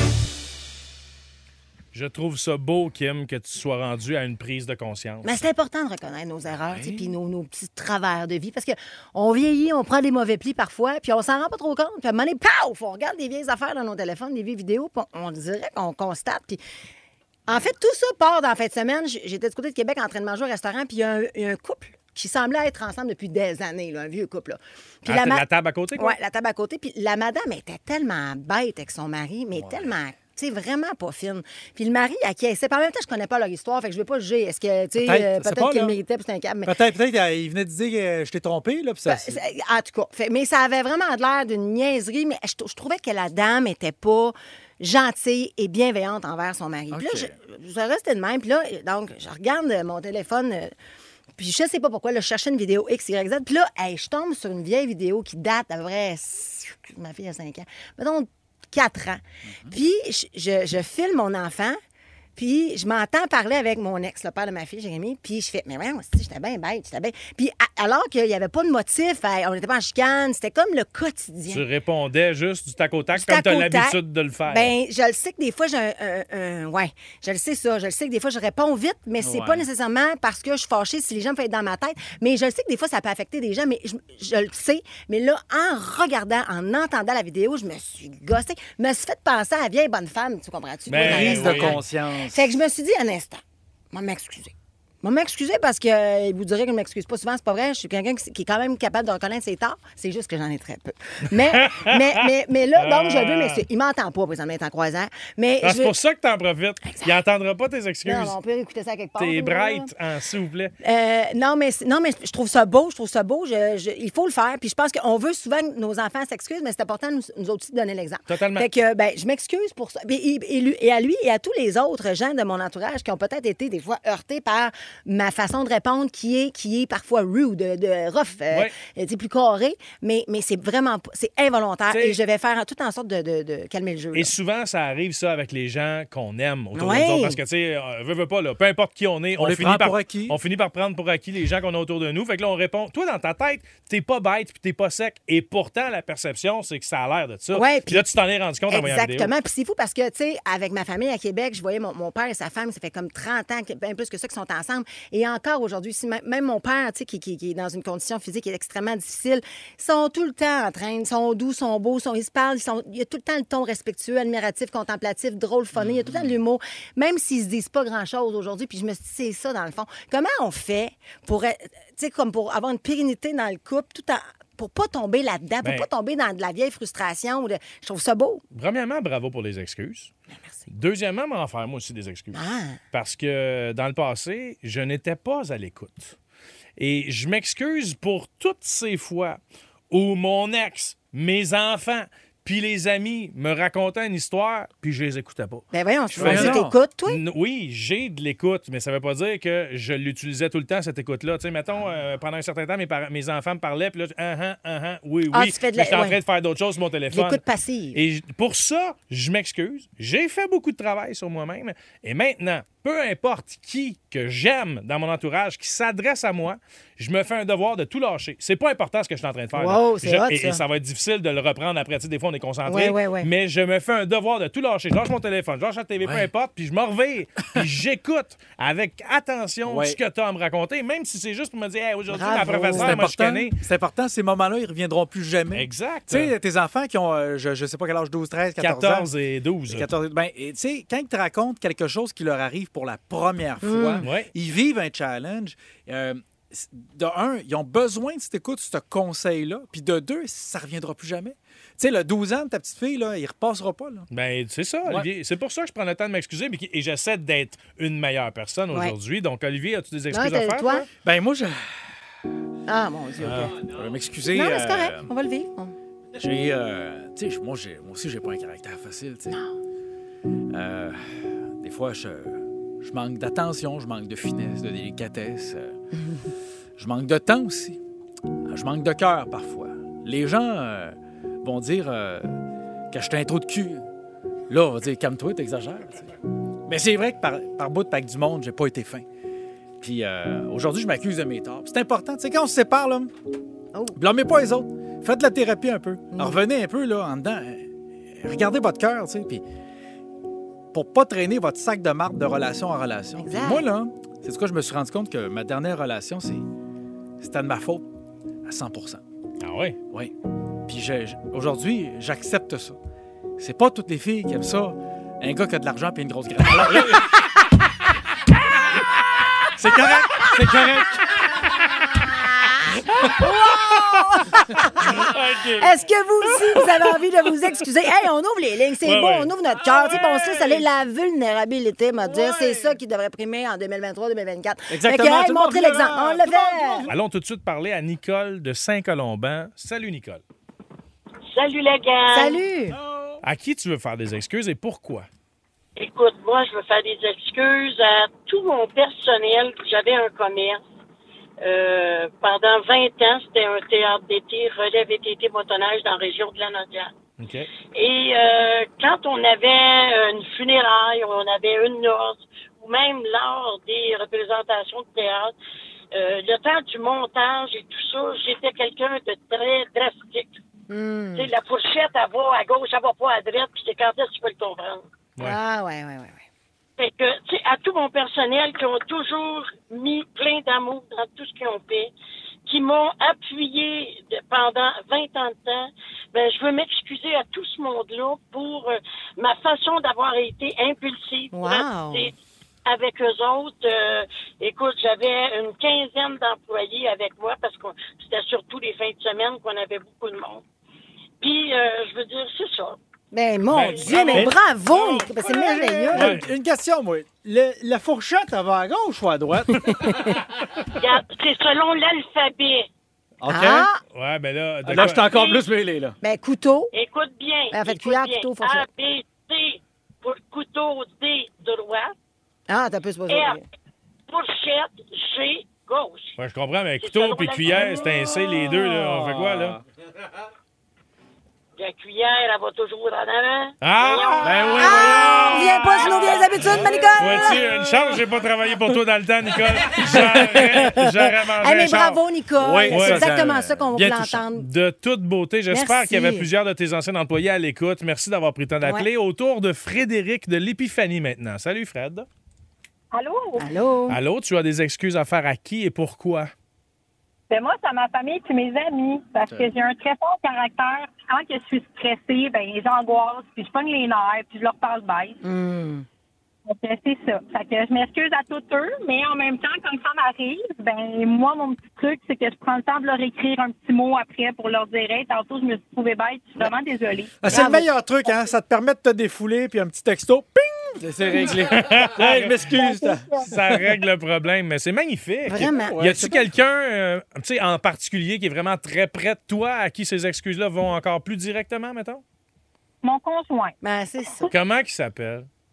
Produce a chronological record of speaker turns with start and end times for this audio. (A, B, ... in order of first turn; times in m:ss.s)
0:01.9-0:05.4 A
0:05.2-0:16.6 B
0:06.7-0:07.1 C
0:17.5-0:25.4 B
0:25.1-0:26.2 A
0:26.0-0:36.7 B
0:29.6-0:29.9 C
0:35.0-0:36.0 C
0:36.6-0:39.4 C
0:39.1-0:50.7 B
0:46.9-0:47.4 C
0:51.4-1:01.8 B
1:02.4-1:11.6 B
1:11.5-1:14.7 A
1:13.1-1:14.0 B
1:14.5-1:33.4 B
1:19.2-1:19.6 C
1:30.9-1:31.8 A
1:31.0-1:32.5 C
1:33.9-1:45.9 B
1:41.3-1:43.6 A
1:45.6-1:48.4 A
1:46.9-1:47.2 B
1:48.0-1:49.9 B
1:49.2-1:50.7 A
1:50.8-2:14.3 B
1:58.3-1:58.7 A
2:11.9-2:12.2 A
2:14.1-2:29.3 A
2:16.8-2:17.4 B
2:19.4-2:20.4 C
2:27.5-2:28.1 B
2:28.7-2:58.4 B
2:45.8-2:46.3 C
2:58.5-3:00.1 A
3:00.4-3:00.6 B
3:00.7-3:06.2 A
3:02.3-3:02.8 B
3:06.8-3:09.4 A
3:09.9-3:27.4 A
3:15.7-3:17.2 B
3:16.2-3:16.8 C
3:25.3-3:26.2 B
3:27.1-3:28.0 B
3:27.9-3:53.6 A
3:39.6-3:40.6 B
3:42.7-3:43.3 B
3:46.0-3:46.3 C
3:49.6-3:50.0 C
3:52.1-3:53.0 B
3:52.7-3:59.1 C
3:55.5-3:56.3 A
3:58.6-3:59.9 A
3:59.7-4:14.1 C
4:03.6-4:04.1 B
4:04.0-4:04.3 A
4:14.1-4:20.9 A
4:20.1-4:20.9 B
4:21.0-4:21.9 C
4:22.7-4:23.6 B
4:23.2-4:23.6 A
4:23.5-4:25.1 C
4:24.3-4:25.7 B
4:26.2-4:29.4 C
4:30.5-4:35.8 C
4:36.8-4:37.8 C
4:38.4-4:42.4 C
4:42.9-4:43.9 C
4:44.5-4:46.1 C
4:46.7-4:49.0 C
4:49.8-4:53.1 C
4:54.0-4:57.7 C
4:56.1-4:56.4 B
4:58.2-4:59.4 C
5:00.7-5:06.5 C
5:03.2-5:03.6 B
5:07.2-5:07.9 C
5:08.4-5:09.0 C
5:09.4-5:09.8 A
5:10.7-5:12.8 C
5:13.4-5:17.2 C
5:19.6-5:21.1 C
5:20.0-5:20.4 B
5:22.2-5:36.8 B
5:24.8-5:25.8 A
5:28.8-5:30.6 A
5:32.0-5:32.8 C
5:34.7-5:37.0 C
5:36.9-5:40.2 A
5:41.3-5:42.4 D
5:42.1-5:42.8 B
5:42.7-5:43.2 C
5:43.2-5:45.1 A
5:45.8-5:50.6 D
5:51.4-5:56.9 D
5:57.2-5:57.5 A
5:57.7-6:05.3 D
6:05.9-6:10.4 D
6:10.7-6:11.3 B
6:11.2-6:14.8 D
6:15.2-6:16.2 B
6:16.8-6:21.9 D
6:22.5-6:32.2 D
6:31.3-6:32.1 B
6:32.7-6:40.4 D
6:41.2-6:42.8 D
6:43.1-6:46.2 B
6:43.5-6:45.1 A
6:44.0-6:44.4 C
6:44.9-6:50.2 C
6:45.9-6:46.3 A
6:49.6-6:50.1 B
6:50.8-6:52.7 D
6:53.2-6:53.7 C
6:53.3-6:53.8 B
6:53.9-6:55.1 A
6:54.7-6:56.0 C
6:54.8-6:55.4 D
6:56.0-6:56.7 B
6:56.7-7:01.9 D
6:57.5-6:58.7 B
7:02.5-7:03.4 B
7:03.1-7:03.4 D
7:04.1-7:06.2 D
7:06.2-7:09.6 A
7:06.8-7:08.4 D
7:09.1-7:09.6 C
7:11.6-7:16.8 D
7:13.6-7:15.8 A
7:14.2-7:15.5 C
7:14.6-7:17.6 B
7:16.4-7:16.7 C
7:17.0-7:22.0 A
7:19.9-7:20.4 C
7:20.4-7:24.5 B
7:22.4-7:24.2 C
7:22.7-7:23.1 A
7:24.4-7:32.1 A
7:25.5-7:26.3 B
7:32.9-7:33.5 E
7:33.4-7:34.0 B
7:33.9-7:36.3 A
7:37.3-7:45.2 E
7:45.2-7:45.9 B
7:46.5-7:57.5 E
7:57.2-8:03.6 C
7:57.3-7:57.7 B
8:01.2-8:02.5 A
8:02.5-8:03.3 E
8:03.3-8:12.0 A
8:05.3-8:05.8 B
8:05.4-8:06.4 C
8:12.8-8:13.5 E
8:13.6-8:14.3 B
8:14.3-8:15.3 A